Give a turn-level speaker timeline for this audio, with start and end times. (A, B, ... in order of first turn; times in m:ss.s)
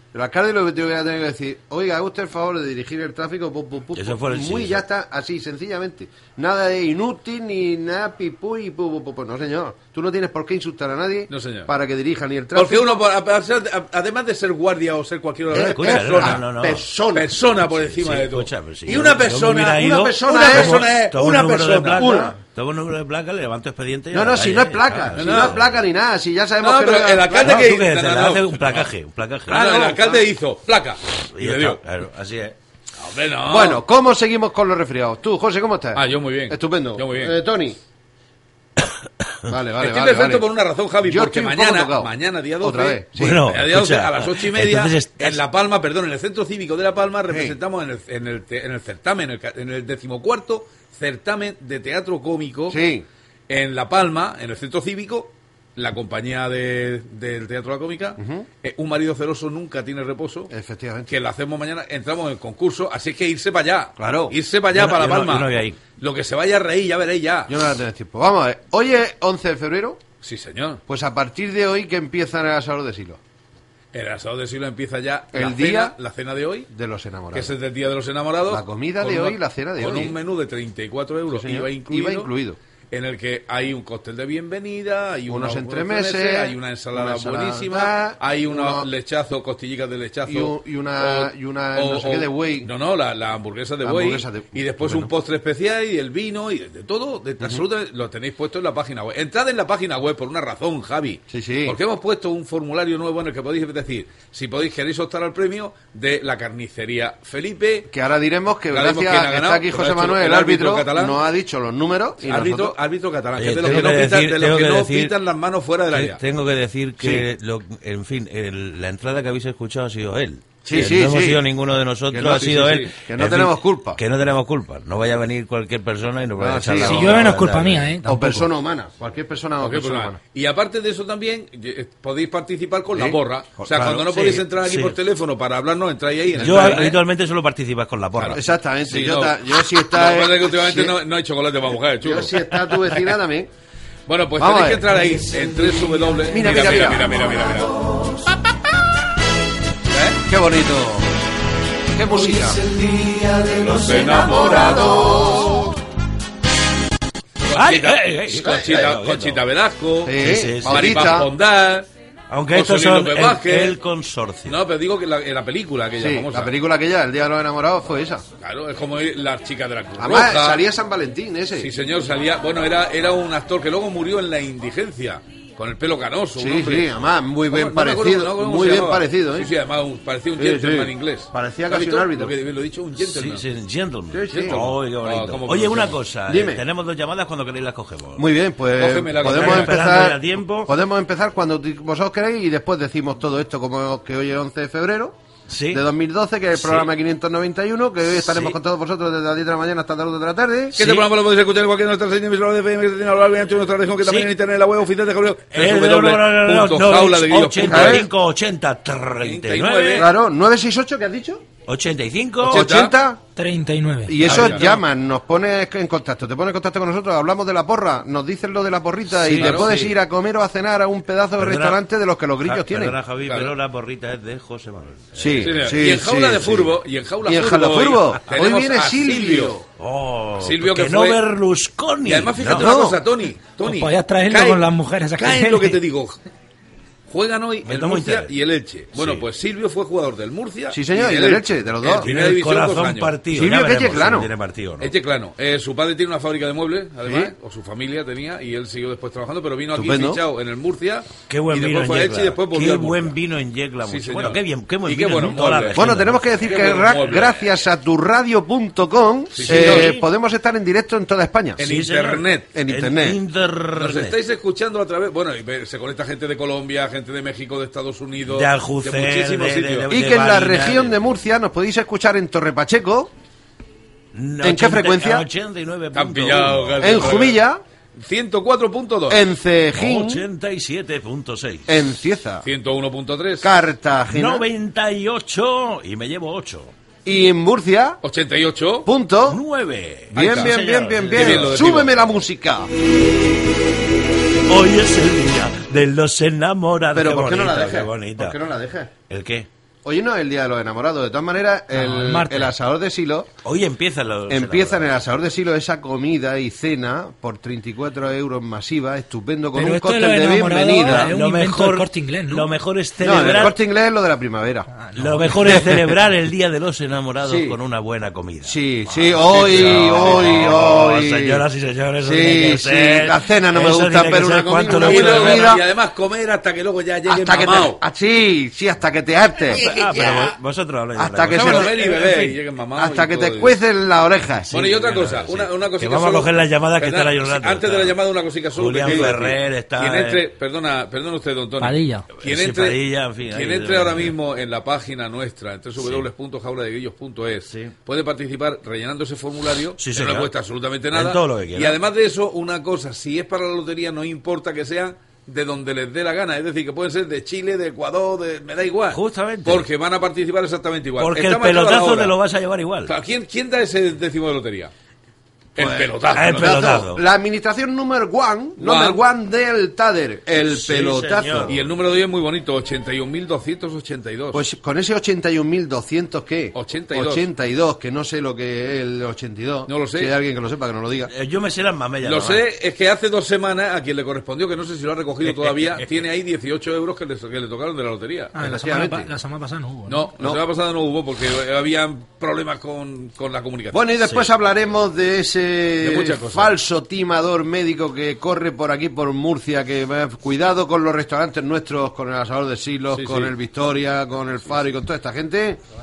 0:00.1-0:13.0 A
0:03.9-0:04.8 B
0:11.3-0:11.7 C
0:12.5-0:16.4 C
0:15.5-0:16.9 B
0:15.5-0:17.3 A
0:17.1-0:22.1 C
0:17.7-0:25.7 B
0:18.9-0:20.8 A
0:22.0-0:22.4 A
0:24.1-0:27.6 A
0:25.2-0:25.6 C
0:26.6-0:28.9 C
0:27.4-0:29.8 B
0:29.5-0:31.8 C
0:29.5-0:30.2 A
0:31.4-0:32.6 B
0:33.0-0:33.8 C
0:33.5-0:37.8 A
0:36.0-0:37.4 C
0:39.5-0:40.4 A
0:39.8-0:52.8 C
0:41.0-0:42.1 A
0:42.6-0:43.5 A
0:43.2-0:45.4 B
0:47.3-0:47.6 A
0:52.7-0:53.1 A
0:53.5-1:00.5 C
0:58.2-0:58.5 A
1:00.5-1:01.1 A
1:01.1-1:07.5 C
1:04.0-1:04.4 A
1:04.7-1:05.8 B
1:07.5-1:10.0 A
1:10.2-1:10.8 C
1:10.9-1:13.2 A
1:13.9-1:16.7 C
1:15.3-1:15.9 A
1:16.7-1:17.6 A
1:17.3-1:22.3 C
1:18.5-1:20.2 A
1:21.3-1:22.6 A
1:22.9-1:47.9 C
1:25.3-1:28.9 A
1:30.3-1:32.7 A
1:33.8-1:35.1 A
1:37.4-1:37.6 A
1:41.3-1:41.8 A
1:47.9-1:52.8 A
1:48.7-1:51.2 C
1:52.2-1:56.2 C
1:53.4-1:55.2 B
1:55.9-2:07.9 B
1:57.0-1:57.3 A
2:00.6-2:01.4 A
2:02.1-2:04.0 A
2:02.4-2:02.9 C
2:06.4-2:07.4 A
2:06.8-2:08.4 D
2:08.0-2:10.2 A
2:09.6-2:17.0 C
2:12.9-2:14.1 A
2:14.1-2:15.0 B
2:16.4-2:16.8 A
2:16.4-2:18.4 B
2:18.2-2:22.3 C
2:18.3-2:20.9 A
2:22.0-2:23.5 A
2:24.1-2:27.7 C
2:24.4-2:24.9 A
2:26.3-2:27.0 A
2:29.9-2:30.2 C
2:30.3-2:31.1 A
2:31.9-2:32.6 A
2:32.7-2:34.8 B
2:33.7-2:35.5 C
2:34.4-2:35.6 A
2:37.5-2:41.9 C
2:37.5-2:39.4 B
2:38.5-2:38.8 A
2:40.0-2:41.3 A
2:40.2-2:41.2 B
2:42.3-2:44.6 B
2:42.5-2:43.8 C
2:44.5-2:46.5 C
2:46.0-2:48.2 A
2:48.4-2:50.6 C
2:50.0-2:51.7 A
2:51.6-2:56.9 C
2:56.4-2:59.5 A
2:57.5-3:03.4 C
3:00.4-3:02.3 A
3:03.0-3:08.2 B
3:04.1-3:04.6 A
3:04.3-3:06.0 C
3:06.3-3:06.6 A
3:08.2-3:15.2 A
3:08.8-3:09.8 C
3:09.2-3:10.7 B
3:15.5-3:15.8 B
3:15.7-3:20.9 A
3:16.6-3:16.9 B
3:18.2-3:18.5 B
3:20.8-3:28.1 C
3:24.0-3:24.3 B
3:25.5-3:30.1 B
3:27.6-3:28.1 A
3:29.2-3:30.1 C
3:30.0-3:31.5 A
3:31.7-3:32.7 B
3:32.4-3:33.0 C
3:32.4-3:33.2 A
3:33.4-3:34.2 D
3:34.1-3:43.0 A
3:34.2-3:34.8 C
3:34.3-3:34.6 B
3:39.1-3:39.9 B
3:39.3-3:39.7 C
3:41.4-3:41.8 B
3:42.4-3:45.8 B
3:43.2-3:43.5 C
3:45.2-3:46.7 A
3:45.4-3:49.6 C
3:47.2-3:49.6 A
3:49.8-3:52.8 B
3:50.4-3:51.2 C
3:52.0-3:56.2 C
3:52.5-3:53.0 A
3:53.6-3:55.8 D
3:57.1-4:03.1 C
3:57.6-3:58.3 B
3:58.9-3:59.3 B
4:00.7-4:02.1 A
4:02.0-4:04.9 B
4:03.3-4:04.3 A
4:04.8-4:13.2 C
4:07.0-4:07.3 A
4:09.7-4:10.2 A
4:11.3-4:16.3 B
4:13.8-4:17.4 C
4:15.8-4:21.6 A
4:19.3-4:20.0 C
4:19.4-4:20.0 B
4:21.6-4:22.5 C
4:21.6-4:24.2 B
4:22.5-4:23.2 A
4:23.8-4:29.9 C
4:28.3-4:31.0 B
4:29.9-4:33.1 A
4:34.1-4:37.0 B
4:34.4-4:35.3 A
4:35.9-4:37.4 C
4:36.8-4:37.6 A
4:38.0-4:39.2 C
4:39.1-4:40.2 A
4:39.8-4:41.8 B
4:41.7-4:42.5 A
4:42.4-4:43.5 C
4:43.4-4:44.5 A
4:44.1-4:46.7 B
4:47.0-4:48.0 A
4:48.0-4:48.9 C
4:48.8-4:49.4 A
4:49.3-4:51.6 B
4:50.1-4:51.9 C
4:50.1-4:52.7 A
4:54.5-4:58.4 B
4:56.9-4:58.9 A
4:59.1-4:59.5 B
4:59.8-5:03.3 A
5:01.7-5:02.5 D
5:03.4-5:04.9 B
5:04.3-5:11.2 A
5:09.5-5:12.6 D
5:10.9-5:13.6 B
5:13.0-5:14.7 A
5:14.8-5:15.6 D
5:15.0-5:18.6 B
5:15.5-5:15.7 A
5:17.2-5:17.6 A
5:18.4-5:21.4 A
5:19.2-5:20.7 C
5:19.3-5:25.6 B
5:22.0-5:25.6 A
5:24.7-5:27.8 C
5:27.1-5:29.6 A
5:29.5-5:30.4 C
5:29.5-5:32.3 B
5:31.0-5:31.8 A
5:31.3-5:33.6 C
5:32.8-5:34.5 A
5:34.5-5:38.0 B
5:34.5-6:02.2 C
5:38.5-5:40.2 B
5:38.8-5:39.2 A
5:41.6-5:42.1 D
5:42.2-5:44.1 B
5:45.8-5:46.1 B
5:47.5-5:47.7 B
5:49.8-5:50.3 B
5:50.9-5:51.8 B
5:58.9-5:59.7 B
6:01.0-6:02.9 B
6:02.9-6:04.7 C
6:05.6-6:06.8 C
6:05.6-6:11.6 A
6:06.1-6:07.0 B
6:08.6-6:09.0 C
6:10.5-6:11.6 B
6:11.5-6:14.4 C
6:14.3-6:21.1 A
6:16.6-6:17.3 C
6:19.7-6:20.1 C
6:21.1-6:22.4 B
6:22.0-6:28.3 C
6:25.2-6:25.7 B
6:28.3-6:30.1 D
6:28.4-6:29.1 A
6:29.9-6:33.8 C
6:33.7-6:45.6 A
6:35.8-6:36.5 C
6:42.9-6:43.3 C